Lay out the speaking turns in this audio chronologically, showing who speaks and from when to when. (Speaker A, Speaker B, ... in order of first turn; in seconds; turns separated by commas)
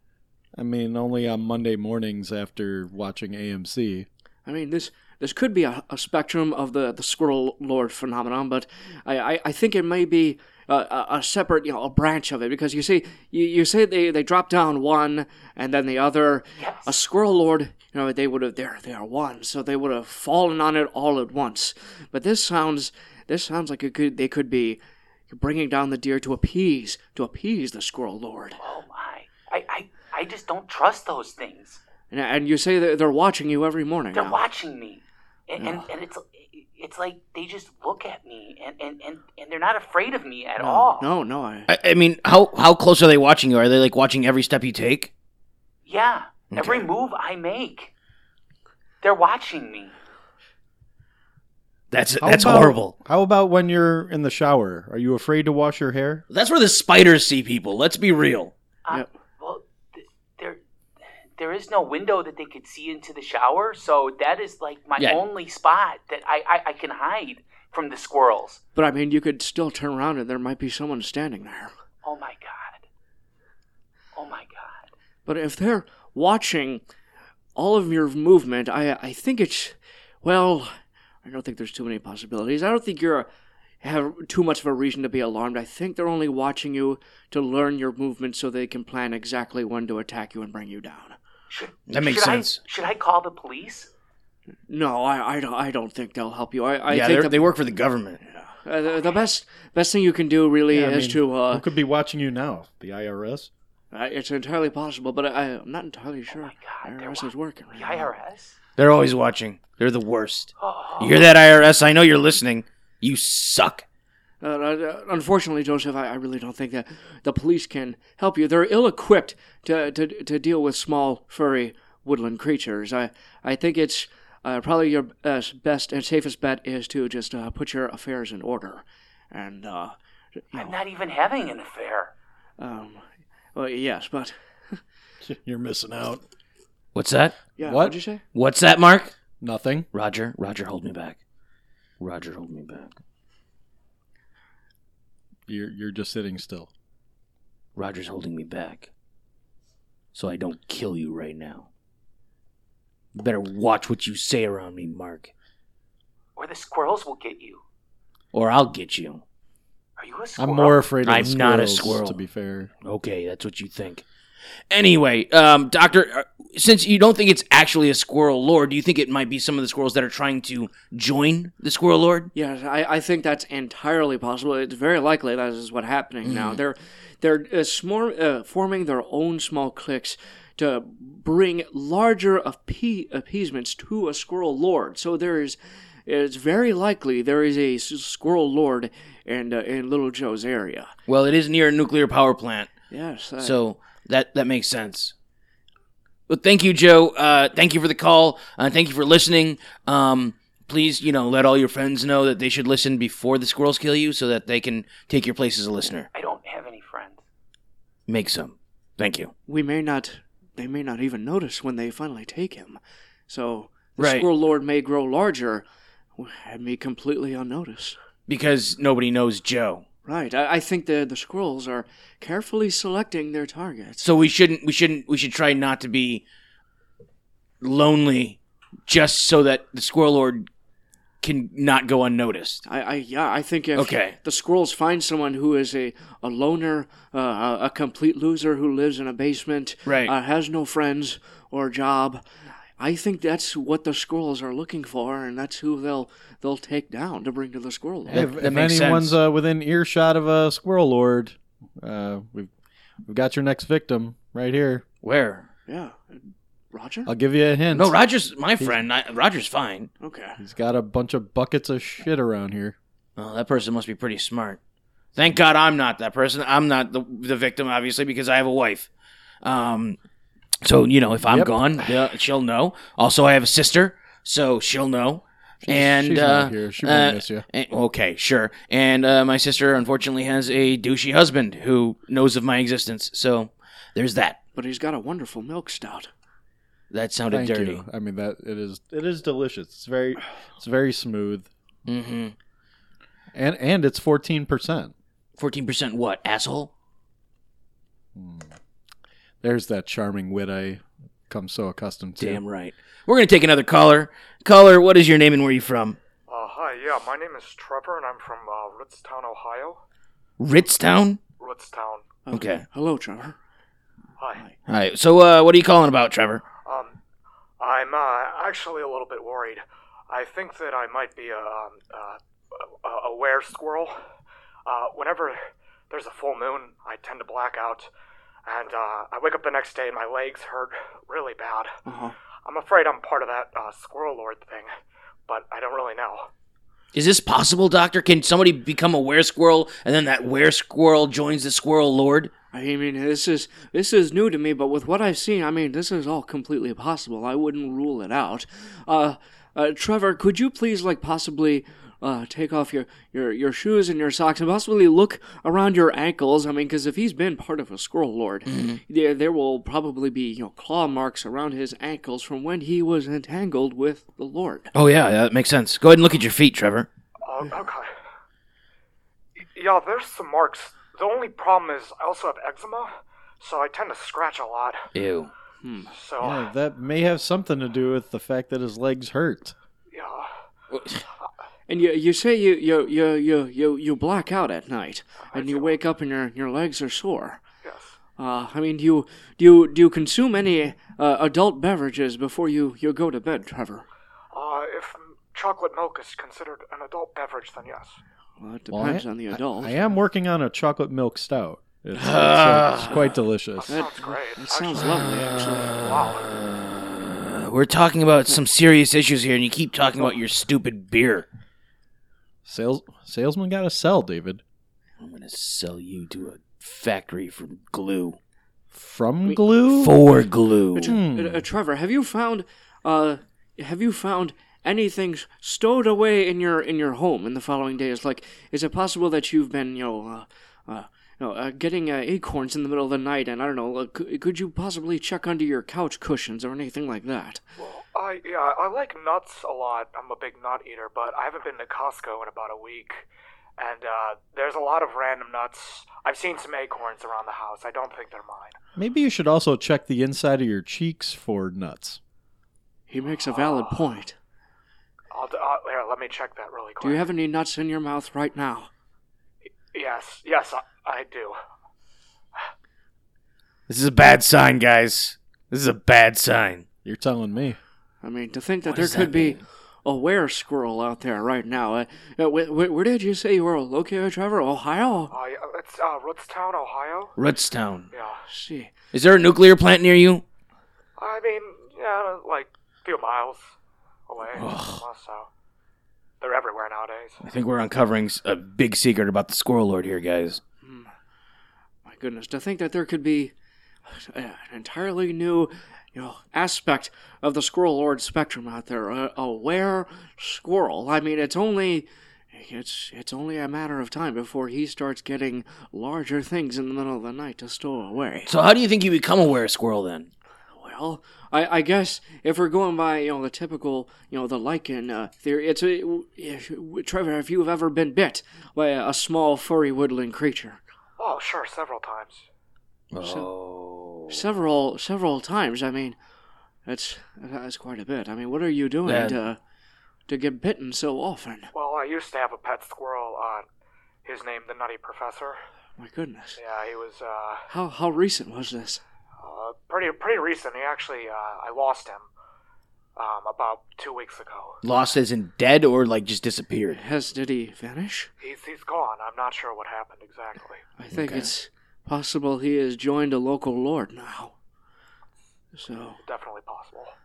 Speaker A: 0.6-4.1, Speaker B: 4.5-28.6, Speaker C: 16.6-16.9, Speaker C: 28.6-31.8, Speaker B: 32.1-34.4, Speaker C: 34.1-41.1, Speaker B: 35.6-35.9, Speaker B: 40.6-41.7, Speaker D: 41.7-45.1, Speaker C: 45.9-47.9, Speaker D: 46.5-46.9, Speaker C: 49.0-49.9, Speaker D: 51.9-52.9, Speaker A: 52.2-56.2, Speaker D: 56.3-58.5, Speaker C: 58.9-60.6, Speaker C: 61.4-68.6, Speaker B: 68.8-71.7, Speaker C: 72.0-72.8, Speaker C: 74.1-74.9, Speaker B: 75.2-76.8, Speaker B: 77.5-83.3, Speaker B: 83.8-91.2, Speaker C: 91.5-93.9, Speaker D: 91.9-92.6, Speaker B: 94.7-97.5, Speaker D: 96.9-98.2, Speaker B: 98.2-101.6, Speaker A: 100.7-103.5, Speaker B: 103.9-108.1, Speaker C: 106.3-108.5, Speaker D: 108.8-113.8, Speaker C: 110.6-111.3, Speaker B: 114.4-130.8, Speaker C: 130.5-132.1, Speaker B: 132.6-134.8, Speaker A: 135.2-136.2, Speaker D: 136.9-137.4, Speaker B: 137.6-138.2, Speaker A: 137.6-137.9, Speaker D: 138.3-139.1, Speaker A: 139.4-139.9, Speaker D: 139.9-141.2, Speaker D: 142.0-142.9, Speaker A: 145.5-146.7, Speaker D: 147.8-148.9, Speaker D: 150.1-151.7, Speaker D: 153.1-155.3, Speaker C: 156.3-157.6, Speaker D: 158.3-159.2, Speaker C: 160.0-160.8, Speaker A: 160.4-162.7, Speaker D: 161.0-162.2, Speaker D: 162.8-164.0, Speaker D: 164.7-172.3, Speaker B: 172.3-190.9, Speaker D: 176.2-176.6, Speaker D: 191.1-192.7, Speaker B: 192.9-193.6, Speaker D: 193.4-195.1, Speaker D: 196.3-206.1, Speaker C: 206.1-207.2, Speaker D: 208.1-209.3, Speaker B: 209.5-215.6, Speaker D: 214.0-214.3, Speaker B: 216.2-218.0, Speaker D: 218.3-219.8, Speaker B: 220.1-224.1, Speaker D: 224.0-226.2, Speaker D: 227.6-230.5, Speaker D: 231.2-232.6, Speaker B: 232.6-242.2, Speaker D: 233.8-234.2, Speaker D: 239.8-240.1, Speaker B: 242.8-248.2, Speaker A: 248.1-252.5, Speaker D: 248.1-249.2, Speaker A: 253.1-254.8, Speaker D: 255.0-255.4, Speaker B: 255.7-257.1, Speaker A: 257.1-257.9, Speaker D: 257.7-259.9, Speaker B: 260.0-260.4, Speaker A: 260.4-262.8, Speaker D: 263.2-264.6, Speaker D: 265.1-268.9, Speaker D: 269.4-270.0, Speaker D: 270.6-284.4, Speaker A: 271.2-272.0, Speaker A: 275.6-277.4, Speaker B: 284.5-286.1, Speaker D: 286.9-287.8, Speaker A: 287.3-291.5, Speaker D: 291.9-292.3, Speaker A: 293.3-294.9, Speaker D: 295.4-296.7, Speaker A: 298.1-298.5, Speaker A: 299.4-302.4, Speaker D: 302.2-306.0, Speaker E: 306.3-309.8, Speaker D: 310.4-311.2, Speaker E: 311.4-312.1, Speaker B: 312.2-313.4, Speaker D: 312.3-312.6, Speaker E: 314.2-314.4, Speaker D: 314.6-316.4, Speaker E: 316.6-316.9, Speaker E: 317.6-324.0, Speaker E: 324.6-327.9, Speaker E: 328.4-331.7, Speaker B: 331.9-332.1, Speaker E: 332.4-334.7, Speaker E: 335.3-336.3, Speaker D: 336.9-342.3, Speaker B: 342.5-364.7, Speaker D: 358.5-358.8, Speaker D: 364.7-366.9, Speaker E: 367.2-367.9, Speaker E: 369.5-374.8, Speaker D: 374.9-375.3, Speaker B: 375.6-375.9, Speaker E: 375.9-376.4, Speaker A: 376.2-379.5, Speaker E: 379.9-380.3, Speaker D: 380.7-381.0, Speaker B: 381.7-387.4, Speaker E: 385.3-385.7, Speaker E: 387.6-388.0, Speaker B: 388.2-393.9, Speaker E: 394.3-398.0, Speaker B: 398.4-399.9, Speaker A: 398.7-403.8, Speaker D: 401.9-403.0, Speaker B: 403.7-405.8, Speaker E: 403.7-404.8, Speaker E: 405.8-406.2, Speaker D: 407.0-411.3, Speaker A: 412.4-414.4, Speaker D: 415.0-418.2, Speaker A: 418.7-420.0, Speaker D: 419.7-420.9, Speaker B: 420.7-437.4, Speaker A: 420.9-421.4, Speaker E: 437.6-443.1, Speaker E: 443.6-448.6, Speaker A: 448.8-452.0, Speaker B: 452.9-454.1, Speaker E: 455.1-457.0, Speaker B: 456.8-458.7, Speaker E: 459.7-461.3, Speaker D: 463.7-466.6, Speaker A: 466.8-467.6, Speaker B: 468.0-475.1, Speaker D: 468.7-469.4, Speaker E: 475.1-477.1, Speaker D: 477.2-477.9, Speaker E: 477.9-478.2, Speaker B: 478.3-478.7, Speaker D: 478.9-480.2, Speaker E: 481.0-483.5, Speaker E: 484.1-485.3, Speaker D: 484.3-484.8, Speaker E: 486.2-487.2, Speaker D: 487.2-490.4, Speaker B: 490.6-490.9, Speaker B: 491.8-493.3, Speaker B: 493.9-508.3, Speaker D: 508.3-510.1, Speaker B: 510.5-520.6, Speaker E: 521.0-522.2, Speaker D: 522.9-524.2, Speaker B: 523.0-523.3, Speaker B: 524.1-526.0, Speaker B: 526.6-529.4, Speaker D: 528.9-529.1, Speaker B: 530.1-531.5, Speaker E: 531.5-533.5, Speaker E: 534.0-535.4, Speaker B: 535.8-536.4, Speaker E: 536.4-537.5, Speaker B: 537.5-538.8, Speaker E: 539.2-542.1, Speaker E: 543.0-544.6, Speaker D: 544.6-546.8, Speaker B: 546.7-548.1, Speaker E: 548.2-550.6, Speaker B: 550.8-554.3, Speaker D: 550.9-551.3, Speaker B: 555.5-556.0, Speaker E: 556.0-556.9